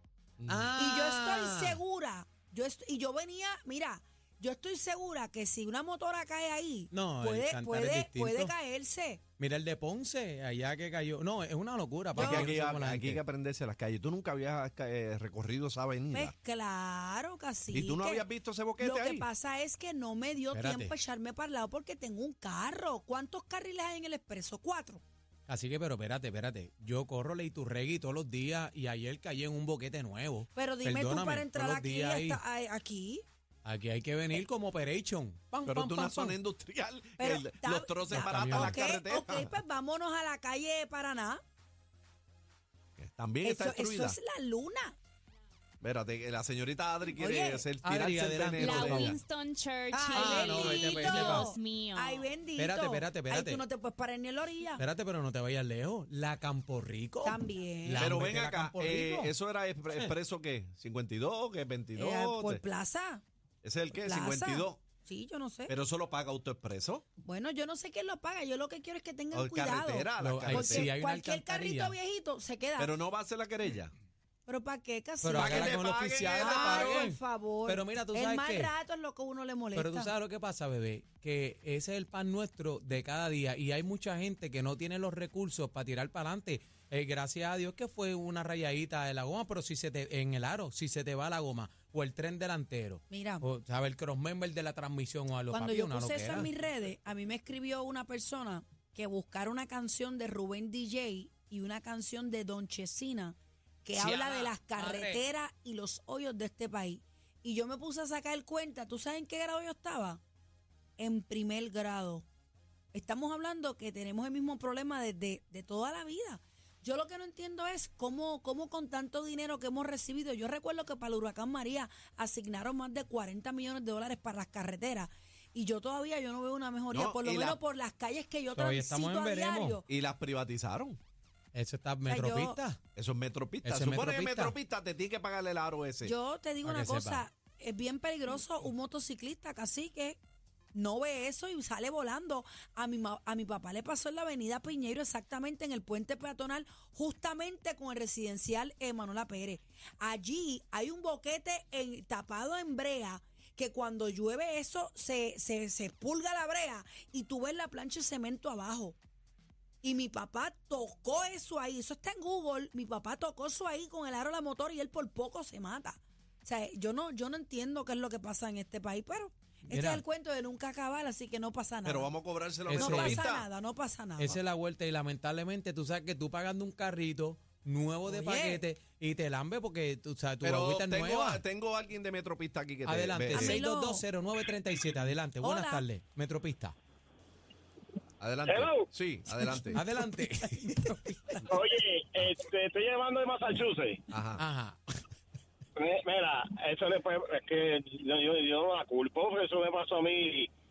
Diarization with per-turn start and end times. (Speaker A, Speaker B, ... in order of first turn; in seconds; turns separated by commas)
Speaker A: 0.4-0.7, Speaker B: 0.5-1.8, Speaker C: 0.7-9.2, Speaker B: 6.9-8.5, Speaker B: 9.4-13.2, Speaker A: 12.1-16.3, Speaker C: 12.2-12.5, Speaker C: 16.1-18.2, Speaker A: 17.7-19.2, Speaker C: 18.8-25.0, Speaker B: 20.5-20.9, Speaker B: 25.5-32.4, Speaker C: 30.5-33.2, Speaker B: 33.6-36.4, Speaker A: 35.6-39.5, Speaker C: 37.2-41.4, Speaker B: 38.1-38.8, Speaker A: 43.0-44.2, Speaker C: 43.4-45.0, Speaker A: 45.8-49.2, Speaker C: 47.1-47.7, Speaker B: 47.8-49.2, Speaker D: 48.6-52.3, Speaker C: 49.9-54.8, Speaker B: 50.1-51.5, Speaker B: 52.6-53.6, Speaker B: 54.8-59.3, Speaker C: 57.2-58.1, Speaker A: 58.0-62.6, Speaker C: 62.0-63.2, Speaker A: 63.6-64.8, Speaker C: 63.9-65.7, Speaker A: 65.7-67.0, Speaker C: 67.2-72.9, Speaker A: 69.3-70.9, Speaker B: 70.2-72.0, Speaker A: 72.8-73.9, Speaker C: 74.5-80.1, Speaker B: 75.2-78.7, Speaker A: 75.4-77.1, Speaker B: 79.7-96.5, Speaker C: 93.1-93.4, Speaker C: 95.5-110.2, Speaker B: 104.0-105.2, Speaker C: 111.0-112.2, Speaker C: 112.9-129.8, Speaker A: 126.9-127.6, Speaker B: 128.5-129.8, Speaker A: 129.9-131.0, Speaker B: 131.5-132.8, Speaker C: 132.1-132.6, Speaker A: 132.9-136.1, Speaker B: 133.6-134.6, Speaker C: 136.0-140.2, Speaker B: 136.6-137.2, Speaker C: 140.7-159.0, Speaker C: 159.8-172.1, Speaker B: 169.7-170.0, Speaker A: 171.8-173.5, Speaker B: 172.7-173.2, Speaker C: 172.7-174.3, Speaker B: 174.2-181.4, Speaker C: 178.1-178.7, Speaker A: 180.4-183.6, Speaker B: 182.8-186.7, Speaker C: 183.3-184.0, Speaker C: 185.4-185.8, Speaker A: 188.2-189.8, Speaker E: 188.4-188.9, Speaker B: 189.7-191.4, Speaker E: 191.4-194.0, Speaker A: 194.1-194.4, Speaker B: 194.4-194.8, Speaker E: 195.8-200.5